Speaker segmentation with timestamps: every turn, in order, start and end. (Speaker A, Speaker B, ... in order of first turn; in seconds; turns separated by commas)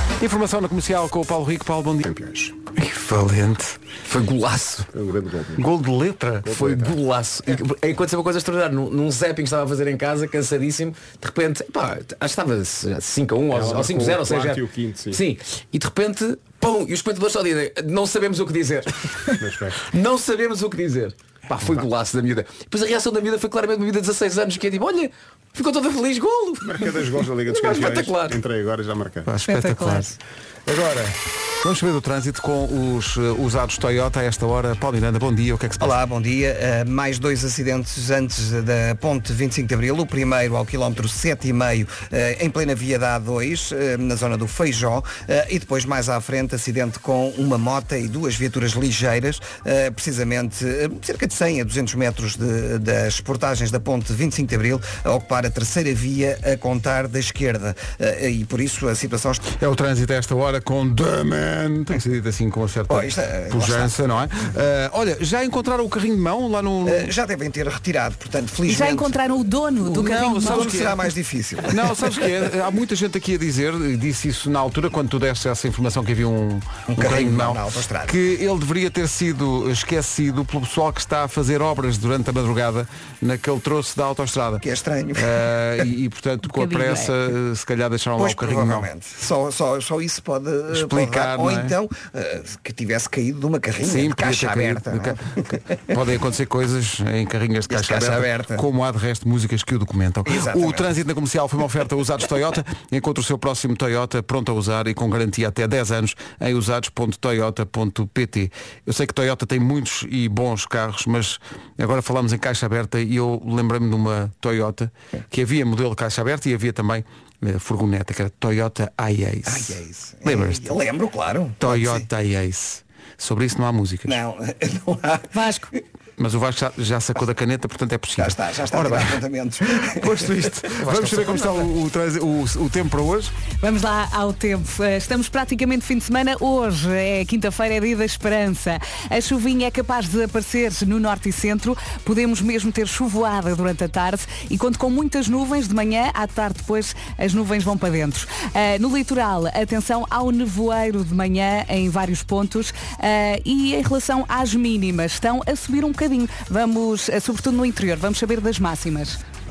Speaker A: 0.2-3.8, Speaker B: 2.1-2.5, Speaker C: 4.1-4.9, Speaker B: 4.9-5.6, Speaker A: 5.5-6.7, Speaker C: 6.5-28.4, Speaker B: 6.5-6.9, Speaker B: 13.5-15.2, Speaker B: 19.4-19.7, Speaker B: 26.7-29.3, Speaker A: 29.2-30.1, Speaker D: 29.4-30.1, Speaker A: 30.7-35.9, Speaker E: 35.8-59.5, Speaker A: 59.5-67.1, Speaker E: 62.9-63.9, Speaker E: 66.8-69.2, Speaker D: 68.7-70.9, Speaker A: 69.8-71.1, Speaker E: 70.2-72.2, Speaker A: 71.7-84.6, Speaker E: 76.9-78.2, Speaker E: 84.6-85.5, Speaker A: 85.2-88.9, Speaker E: 88.2-95.5, Speaker A: 90.7-91.7, Speaker A: 93.8-120.8, Speaker E: 97.7-98.6, Speaker E: 100.2-100.9, Speaker E: 119.5-122.0, Speaker A: 121.6-124.2, Speaker E: 124.1-125.4, Speaker D: 125.3-125.7, Speaker A: 126.2-129.2, Speaker E: 128.2-130.3, Speaker A: 129.7-133.3, Speaker C: 130.8-131.7, Speaker D: 133.6-159.2